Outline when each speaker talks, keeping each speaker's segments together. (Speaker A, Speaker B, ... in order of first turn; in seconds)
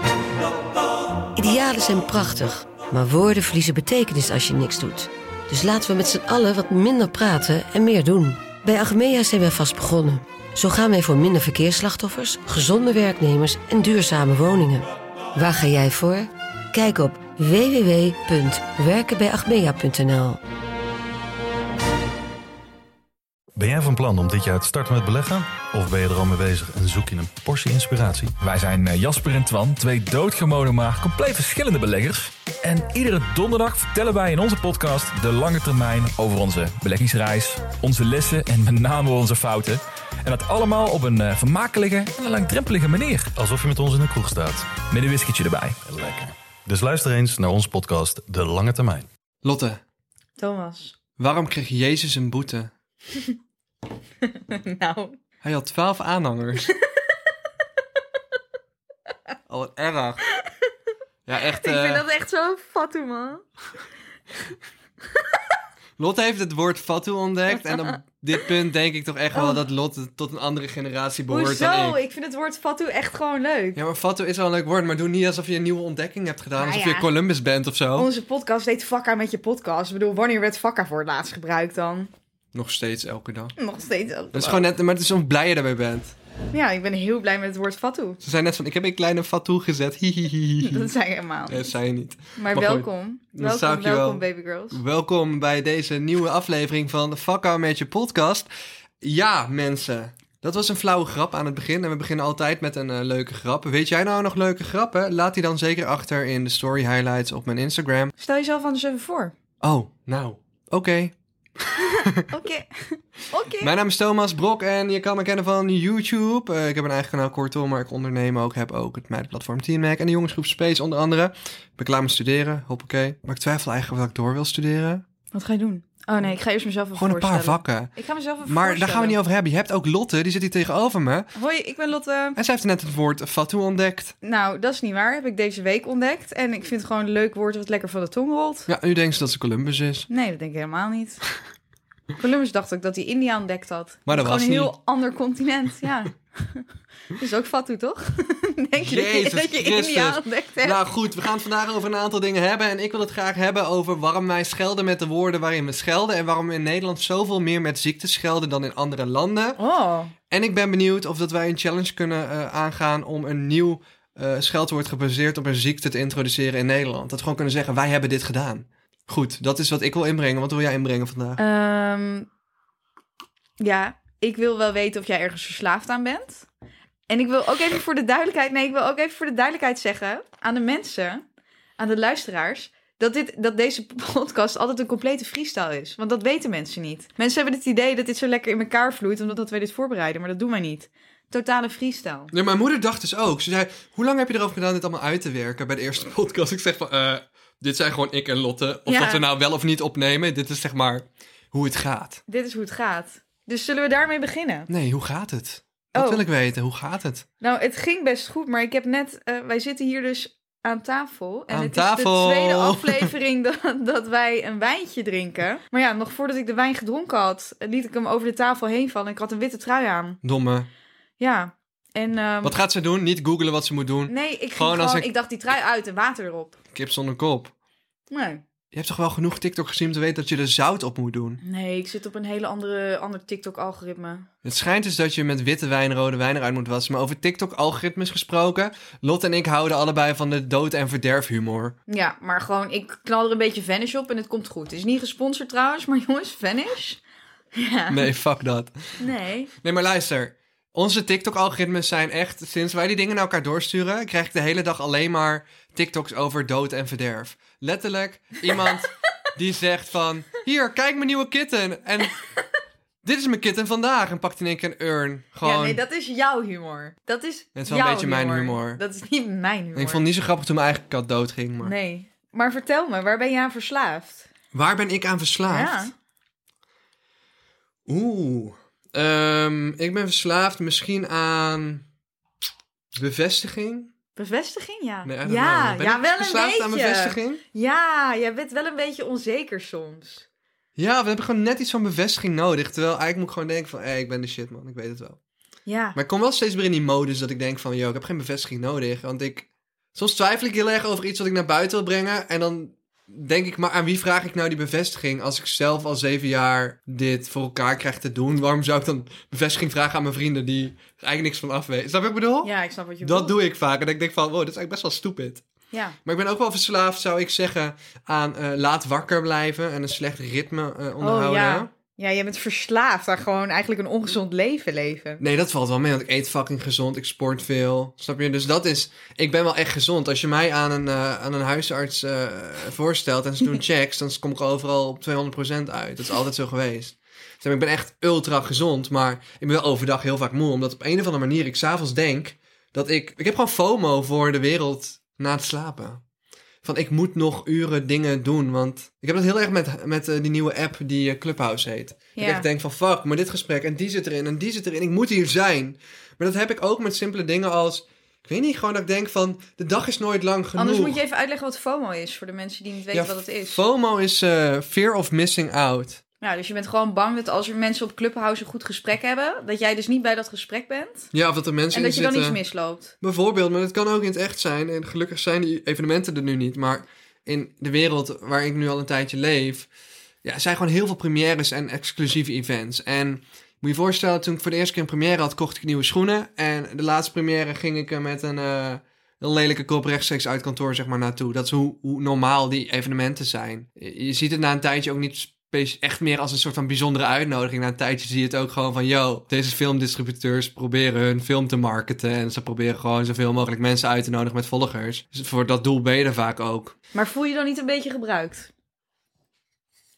Speaker A: 1.4-20.4
Speaker B: 23.6-28.3, 43.4-44.8, 45.8-49.1
Speaker C: 28.4-43.3, 44.9-45.8
Speaker D: 49.4-49.8, 51.2-52.7, 55.4-56.7, 59.5-60.2, 61.2-62.0, 66.0-72.0, 73.7-78.1, 82.5-83.5, 84.3-86.2, 88.2-90.9, 91.5-98.5, 99.0-108.1, 109.6-112.2, 113.6-125.0, 127.0-127.9, 128.4-131.3, 132.3-134.1, 138.7-140.1, 144.1-144.7, 148.8-159.6, 160.3-171.4, 192.3-202.2, 204.7-207.2, 211.5-213.1, 220.2-220.7, 222.4-225.1, 226.7-227.5, 228.7-231.4, 234.4-241.8, 247.9-248.7, 249.6-262.2, 263.0-265.8, 267.6-268.8, 269.7-271.7, 274.5-275.9, 277.9-281.8, 282.9-283.9, 285.0-287.4, 290.8-295.2, 295.9-315.4, 316.0-321.7, 325.2-346.0, 346.6-361.0, 362.9-366.0, 371.1-372.4, 373.0-379.7, 380.2-406.7
Speaker E: 50.4-50.9, 54.2-55.2, 61.5-63.4, 69.3-69.6, 71.3-73.8, 76.6-77.1, 77.9-82.1, 83.6-84.7, 86.5-88.2, 90.6-91.7, 92.3-94.8, 108.2-109.3, 112.3-113.7, 125.3-129.2, 131.3-132.4, 134.2-138.7, 140.1-141.2, 142.2-150.8, 159.6-160.1, 171.4-172.3, 173.6-176.5, 177.1-181.2, 181.8-192.3, 198.9-199.2, 202.3-204.7, 205.9-206.2, 207.4-220.2, 221.2-222.5, 224.1-226.6, 228.1-228.4, 231.4-234.3, 241.9-247.0, 247.6-248.1, 249.0-249.5, 265.4-270.0, 271.6-274.3, 275.5-275.9, 284.1-290.2, 295.6-296.0, 312.4-313.4, 315.7-316.0, 321.0-325.2, 352.1-352.5, 360.6-363.6, 366.2-371.1, 371.7-372.9, 406.9-408.5